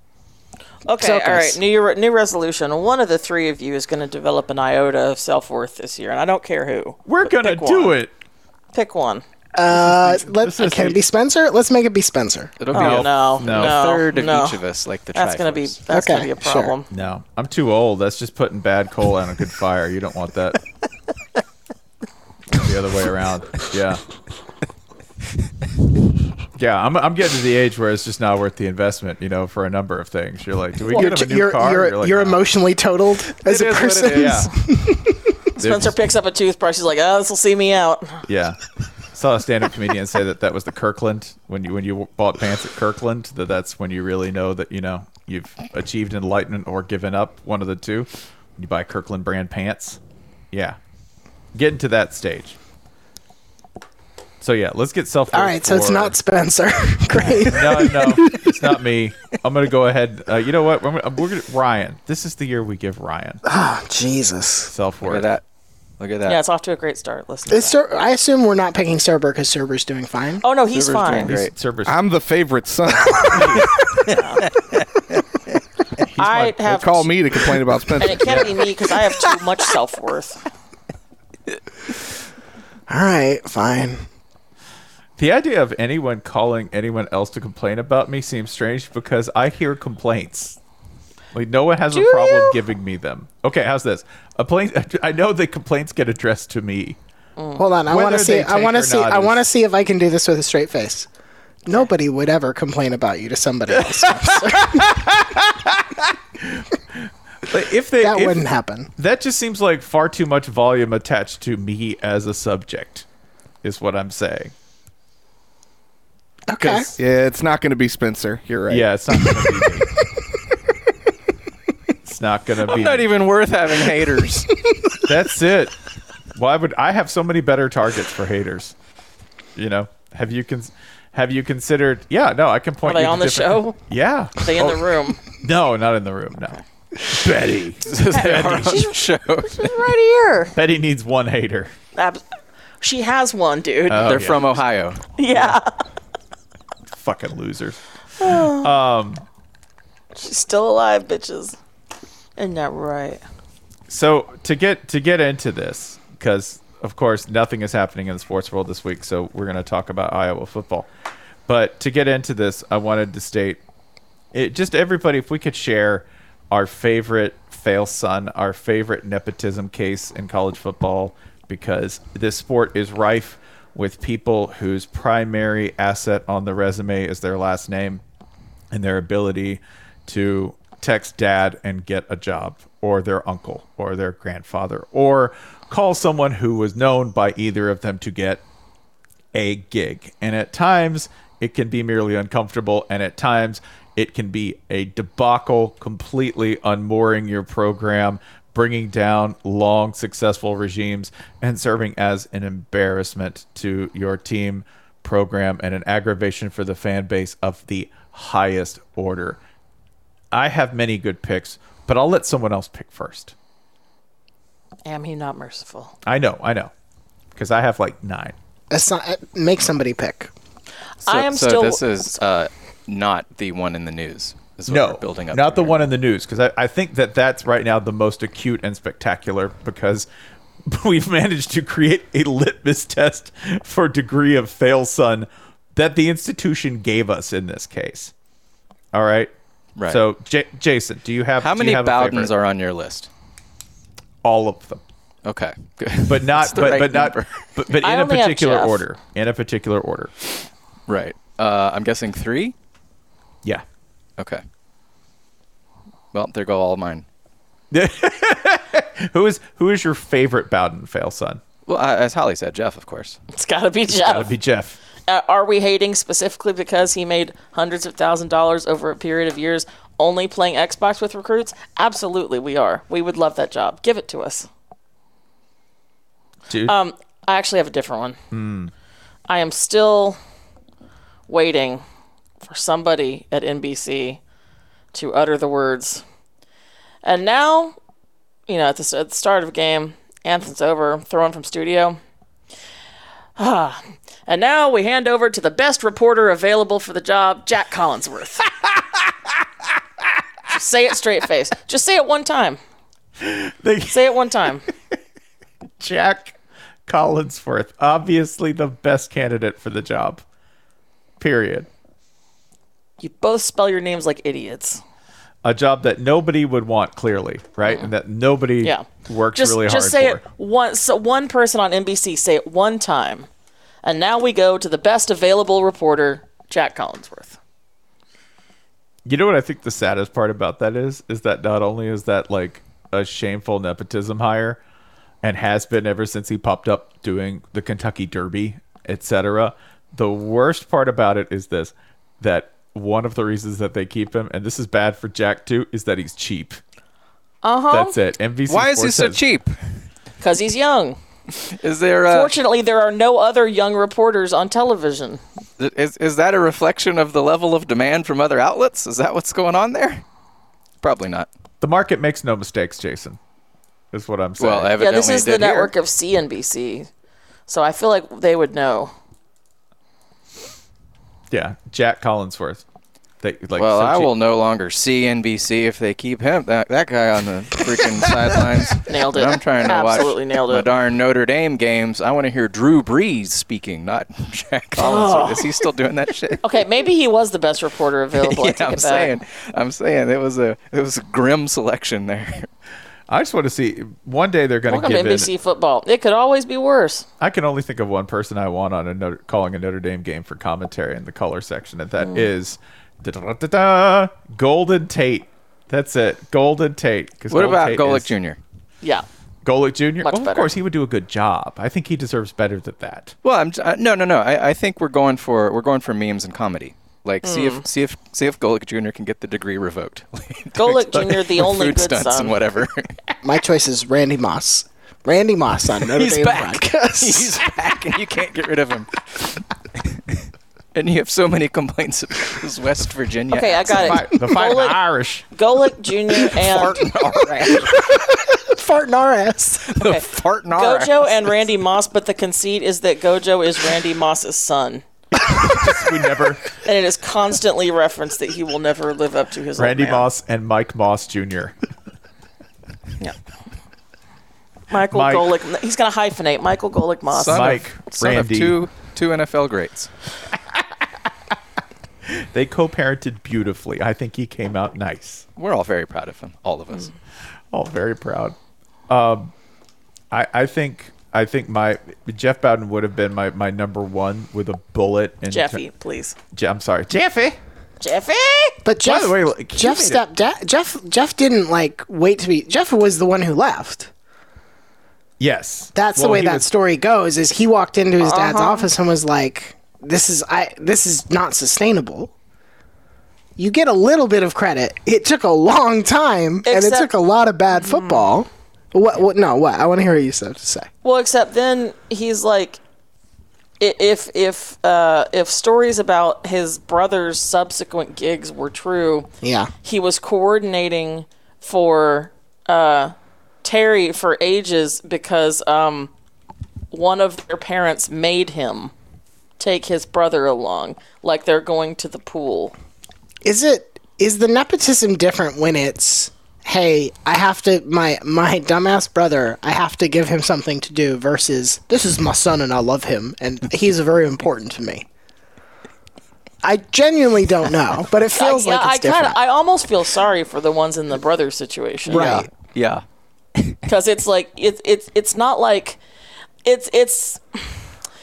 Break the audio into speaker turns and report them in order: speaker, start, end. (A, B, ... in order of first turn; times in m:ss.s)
0:00.8-0:08.0 A
0:01.0-0:01.6 B
0:07.0-0:08.1 C
0:08.7-0:09.2 A
0:09.6-0:12.6 B
0:09.7-0:11.0 C
0:12.6-0:15.8 D
0:12.7-0:13.8 C
0:12.7-0:14.6 A
0:15.1-0:16.9 A
0:15.9-0:16.7 B
0:16.9-0:20.6 C
0:22.5-0:24.0 C
0:26.6-0:32.4 C
0:30.8-0:35.3 B
0:33.4-0:34.4 D
0:34.1-0:34.5 C
0:35.6-0:38.2 A
0:35.6-0:35.9 C
0:38.3-0:38.6 C
0:39.1-0:50.0 C
0:50.5-0:50.8 C
0:51.5-0:52.6 C
0:54.4-0:56.1 C
0:55.3-0:58.6 B
0:57.3-1:03.4 C
1:03.4-1:04.7 B
1:04.7-1:05.3 C
1:05.0-1:05.4 D
1:06.0-1:06.4 D
1:06.2-1:07.8 A
1:07.5-1:10.4 B
1:10.4-1:11.3 A
1:10.7-1:11.5 D
1:11.2-1:12.0 C
1:11.8-1:13.6 E
1:13.3-1:13.7 C
1:14.1-1:14.4 A
1:16.0-1:16.9 C
1:16.2-1:17.0 A
1:16.6-1:18.4 E
1:18.0-1:20.4 A
1:18.2-1:18.6 C
1:22.9-1:24.0 B
1:25.2-1:30.6 C
1:31.3-1:37.0 C
1:31.9-1:32.6 A
1:37.4-1:37.6 A
1:37.6-1:41.1 B
1:37.9-1:39.4 C
1:41.6-1:45.0 B
1:43.8-1:48.4 C
1:48.0-1:48.9 B
1:49.0-1:53.0 C
1:53.6-1:54.5 C
1:56.5-1:56.9 B
1:56.6-1:56.9 C
1:56.9-1:59.5 E
1:58.7-1:59.9 C
2:02.0-2:03.1 C
2:02.6-2:04.5 D
2:05.0-2:05.8 C
2:06.3-2:08.7 C
2:09.6-2:18.8 C
2:12.8-2:13.8 A
2:14.4-2:15.2 A
2:17.8-2:19.7 D
2:18.1-2:20.5 A
2:20.5-2:21.7 C
2:22.0-2:22.2 A
2:22.8-2:24.2 A
2:23.9-2:24.6 C
2:24.0-2:25.0 D
2:25.2-2:25.7 A
2:25.3-2:25.6 C
2:26.9-2:29.2 C
2:28.2-2:28.7 A
2:30.1-2:31.6 A
2:32.4-2:33.2 A
2:33.9-2:40.9 C
2:41.5-2:43.6 C
2:44.3-2:58.0 C
2:58.7-3:08.4 C
3:09.3-3:29.4 C
3:30.3-3:33.3 C
3:34.8-3:35.9 A
3:36.0-3:36.7 C
3:37.4-3:38.3 C
3:38.7-3:40.3 B
3:41.0-3:41.8 A
3:41.0-3:45.9 D
3:44.7-3:50.1 C
3:50.7-3:58.1 C
3:58.9-3:59.3 C
3:59.8-4:02.3 C
4:01.4-4:03.1 D
4:04.2-4:04.8 C
4:05.2-4:07.4 D
4:06.0-4:10.1 C
4:07.8-4:08.8 A
4:10.9-4:12.5 D
4:14.2-4:14.4 D
4:16.1-4:17.0 D
4:17.7-4:21.4 C
4:21.7-4:23.2 D
4:23.3-4:24.3 A
4:24.0-4:24.8 C
4:25.1-4:34.5 A
4:36.5-4:36.7 C
4:36.6-4:38.2 A
4:38.3-4:38.7 C
4:39.3-4:40.2 A
4:41.3-4:41.8 A
4:42.4-4:44.2 A
4:44.9-4:46.0 A
4:47.0-4:47.8 A
4:48.5-4:52.0 A
4:53.4-4:58.5 A
4:58.6-4:59.1 C
5:00.5-5:02.6 A
5:03.2-5:04.0 C
5:03.9-5:04.6 A
5:05.8-5:06.3 C
5:06.9-5:10.2 C
5:11.2-5:11.7 C
5:13.0-5:14.8 A
5:15.4-5:20.2 C
5:18.6-5:23.3 A
5:23.8-5:27.4 A
5:29.0-5:34.6 C
5:35.2-5:46.6 C
5:47.4-5:48.0 A
5:47.7-5:49.2 C
5:48.5-5:49.6 D
5:50.2-5:51.0 A
5:51.5-5:52.4 D
5:52.1-5:55.2 A
5:55.6-6:00.0 D
6:00.8-6:01.3 D
6:01.6-6:03.2 C
6:03.9-6:04.8 C
6:04.4-6:05.7 D
6:04.8-6:06.9 A
6:07.5-6:08.9 A
6:11.3-6:12.6 C
6:13.2-6:14.1 C
6:13.6-6:26.4 D
6:18.8-6:20.7 A
6:24.8-6:25.4 A
6:26.4-6:29.1 A
6:28.2-6:32.5 D
6:33.1-6:35.3 C
6:34.7-6:37.0 A
6:37.2-6:48.1 C
6:42.0-6:42.3 A
6:47.3-6:48.4 D
6:49.4-6:53.1 C
6:50.0-6:50.5 A
6:53.2-7:02.9 D
6:57.2-6:57.6 A
7:00.6-7:02.4 A
7:03.2-7:07.4 B
7:05.9-7:10.2 D
7:10.7-7:14.2 D
7:13.3-7:16.8 A
7:13.7-7:15.2 C
7:16.3-7:17.7 D
7:17.5-7:19.7 B
7:19.7-7:21.3 D
7:20.6-7:24.8 A
7:25.2-7:26.4 C
7:26.6-7:30.1 A
7:29.6-7:31.5 C
7:34.7-7:37.5 A
7:34.9-7:35.3 C
7:37.1-7:39.9 D
7:37.3-7:38.6 C
7:42.1-7:45.2 C
7:45.4-7:46.9 D
7:47.5-7:48.4 C
7:48.9-7:49.3 C
7:50.1-7:55.6 C
7:55.3-7:56.2 A
7:56.3-7:57.4 C
7:57.8-7:58.6 A
7:58.6-8:03.9 B
7:58.8-8:00.0 C
8:05.2-8:06.4 C
8:05.7-8:12.1 B
8:08.0-8:08.7 A
8:13.4-8:20.7 B
8:16.4-8:16.9 A
8:17.5-8:18.0 A
8:20.8-8:22.6 A
8:23.6-8:29.1 A
8:29.2-8:29.5 B
8:29.6-8:35.9 A
8:36.7-8:38.7 A
8:39.4-8:42.5 A
8:43.2-8:54.9 B
8:56.4-8:59.2 B
8:58.1-9:02.2 A
9:01.9-9:02.3 B
9:01.9-9:02.8 D
9:03.6-9:05.8 A
9:06.4-9:07.5 A